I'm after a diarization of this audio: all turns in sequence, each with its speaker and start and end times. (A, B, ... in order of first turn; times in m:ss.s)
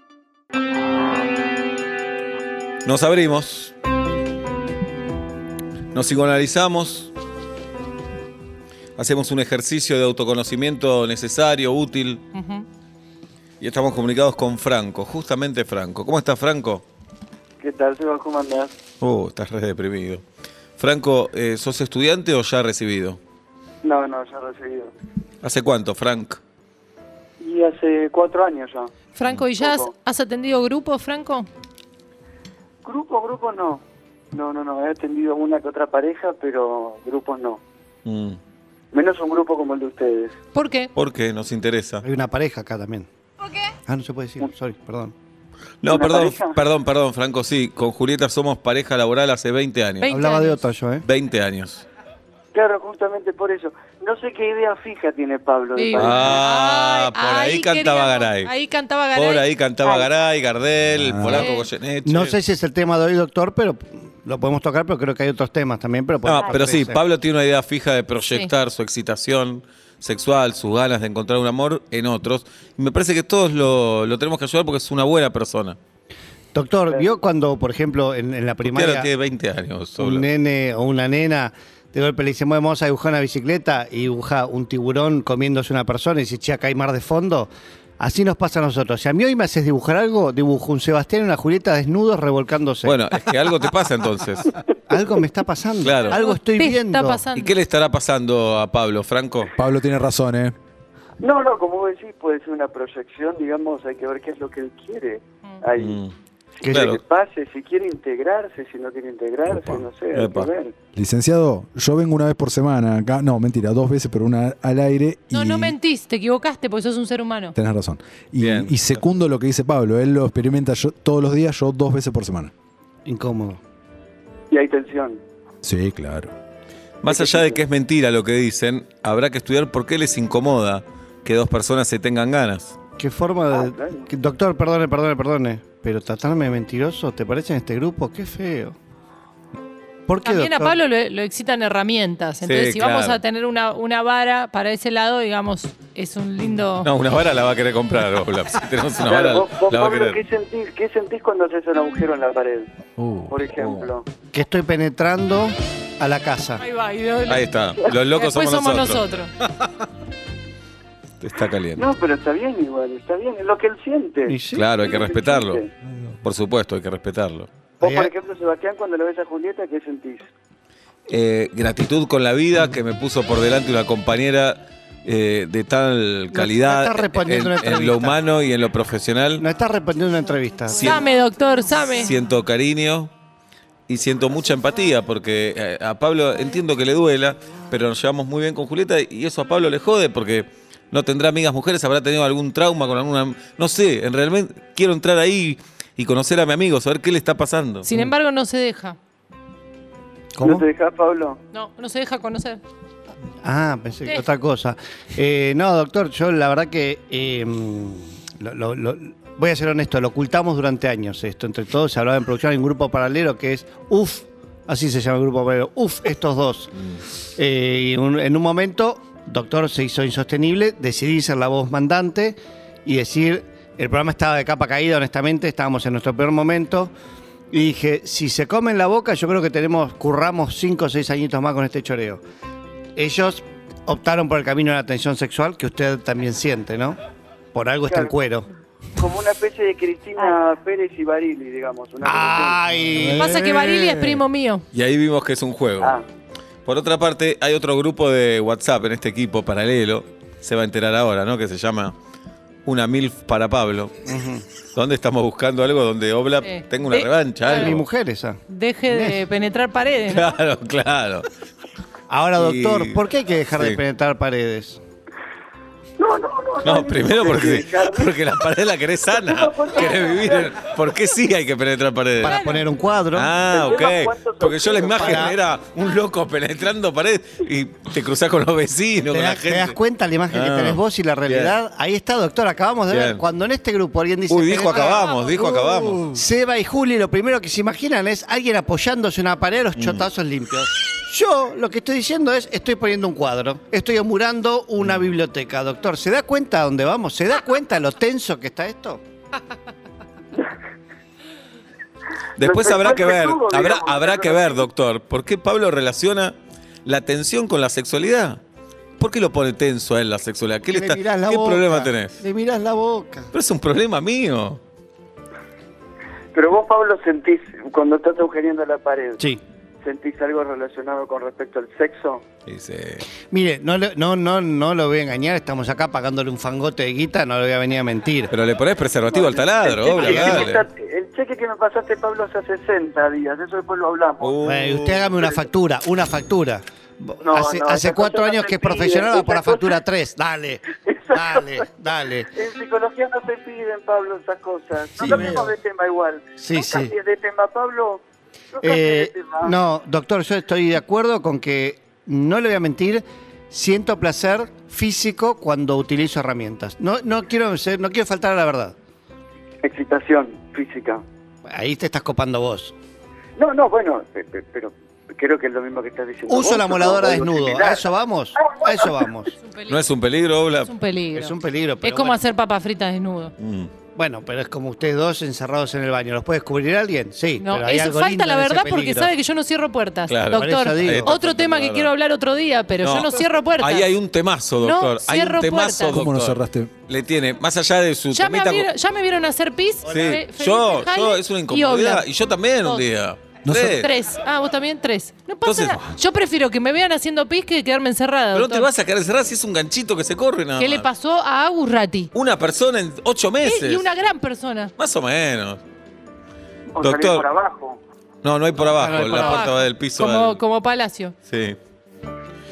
0:02.8-0:03.7 A
0:05.9-0:07.1 A
0:09.0-0:12.2 A
0:12.3-0:12.6 B
0:13.6-0:16.8 A
0:17.6-0:18.7 C
0:19.0-0:20.2 A
0:20.8-0:23.2 A
0:23.8-0:24.9 C
0:25.4-0:26.4 A
0:27.4-0:28.9 C
0:29.1-0:31.5 B
0:29.6-0:29.9 C
0:32.8-0:33.8 C
0:34.3-0:37.6 C
0:38.0-0:38.4 A
0:38.9-0:40.3 C
0:40.5-0:40.9 B
0:40.9-0:42.0 A
0:42.0-0:43.1 D
0:43.8-0:45.1 D
0:45.8-0:50.1 A
0:45.9-0:46.6 C
0:50.0-0:50.6 B
0:50.1-0:51.0 D
0:51.0-0:51.8 A
0:52.5-0:56.4 C
0:55.8-0:59.4 B
0:56.0-0:58.5 A
0:59.1-1:02.4 A
1:00.9-1:01.5 E
1:01.3-1:01.6 B
1:02.0-1:07.0 D
1:06.2-1:15.8 A
1:16.5-1:19.1 D
1:18.6-1:20.3 A
1:20.0-1:33.0 D
1:32.8-1:34.5 A
1:34.9-1:37.2 D
1:35.8-1:36.2 A
1:36.1-1:37.5 B
1:37.3-1:39.5 A
1:39.6-1:40.6 E
1:41.2-1:46.0 C
1:45.8-1:46.1 A
1:46.6-1:50.7 C
1:46.7-1:47.0 A
1:50.1-1:50.5 A
1:51.0-1:55.8 E
1:55.3-1:57.6 B
1:57.5-2:02.5 E
1:58.4-1:59.0 A
2:03.0-2:03.6 D
2:04.5-2:05.2 C
2:05.6-2:06.3 E
2:07.0-2:12.8 A
2:07.1-2:07.6 C
2:13.0-2:18.8 D
2:13.5-2:14.1 C
2:20.1-2:20.8 D
2:20.2-2:26.9 B
2:22.4-2:23.2 A
2:26.8-2:30.2 A
2:29.0-2:32.7 C
2:33.0-2:33.4 E
2:33.3-2:34.1 C
2:33.6-2:33.9 A
2:34.3-2:36.6 D
2:36.6-2:37.5 B
2:37.3-2:39.0 A
2:38.1-2:39.3 B
2:41.2-2:41.9 A
2:41.8-2:45.7 C
2:44.2-2:44.6 D
2:44.5-2:45.6 A
2:46.2-2:47.5 A
2:47.8-2:50.3 C
2:47.8-2:48.1 D
2:51.1-2:59.4 A
2:56.3-2:58.2 D
2:59.4-3:01.0 D
3:00.8-3:02.1 B
3:02.0-3:03.1 A
3:03.9-3:17.9 A
3:17.8-3:19.0 B
3:20.3-3:20.6 D
3:20.4-3:21.4 C
3:21.5-3:22.6 B
3:23.4-3:36.8 D
3:37.4-3:46.9 D
3:47.5-3:52.2 D
3:53.0-3:57.0 D
3:57.5-3:58.5 D
3:57.9-3:58.1 C
3:59.0-4:02.6 C
4:02.0-4:04.0 D
4:03.1-4:04.6 B
4:04.7-4:06.0 A
4:06.6-4:11.9 A
4:12.6-4:13.9 A
4:14.0-4:14.4 D
4:14.7-4:17.8 A
4:16.4-4:17.7 B
4:17.4-4:19.2 D
4:18.5-4:20.3 B
4:20.1-4:21.2 A
4:22.1-4:24.8 D
4:22.4-4:23.0 A
4:26.0-4:28.1 C
4:26.6-4:32.4 A
4:29.1-4:30.5 C
4:32.2-4:33.3 D
4:32.2-4:32.7 B
4:33.1-4:39.8 A
4:33.5-4:35.3 C
4:35.0-4:35.4 D
4:39.1-4:59.0 D
4:40.3-4:41.6 A
4:42.9-4:43.2 A
4:44.3-4:46.1 A
4:49.8-4:50.1 A
4:54.8-4:55.1 A
5:02.4-5:08.4 A
5:02.4-5:04.7 C
5:09.0-5:12.2 A
5:10.7-5:13.3 D
5:13.3-5:14.6 A
5:16.3-5:19.2 C
5:19.8-5:22.2 C
5:22.4-5:23.0 A
5:23.3-5:28.3 D
5:28.3-5:30.6 A
5:29.1-5:34.3 C
5:30.0-5:30.5 D
5:34.2-5:35.1 A
5:34.4-5:42.3 D
5:37.2-5:39.8 C
5:40.8-5:41.6 C
5:42.3-5:48.0 C
5:45.0-5:45.5 D
5:46.4-5:46.9 D
5:48.5-5:49.5 C
5:48.6-5:58.7 D
5:59.6-6:01.0 C
6:01.4-6:02.7 D
6:03.4-6:07.8 C
6:06.3-6:09.3 D
6:08.4-6:08.7 C
6:09.4-6:09.8 B
6:09.7-6:10.7 A
6:10.6-6:13.3 B
6:11.1-6:12.2 D
6:13.4-6:13.7 A
6:13.9-6:19.1 D
6:17.4-6:23.9 B
6:20.1-6:21.9 A
6:20.3-6:21.1 D
6:22.8-6:28.7 A
6:24.6-6:26.0 B
6:25.9-6:26.7 E
6:28.1-6:32.1 B
6:29.8-6:33.9 A
6:29.9-6:30.2 D
6:33.5-6:38.7 B
6:35.4-6:35.8 A
6:38.3-6:40.9 A
6:40.6-6:42.1 B
6:42.1-6:43.9 A
6:43.4-6:44.7 B
6:44.8-6:45.6 A
6:46.7-6:47.8 C
6:46.8-6:47.3 A
6:48.2-6:50.4 A
6:48.6-6:49.6 D
6:49.0-6:51.1 B
6:51.3-6:51.6 A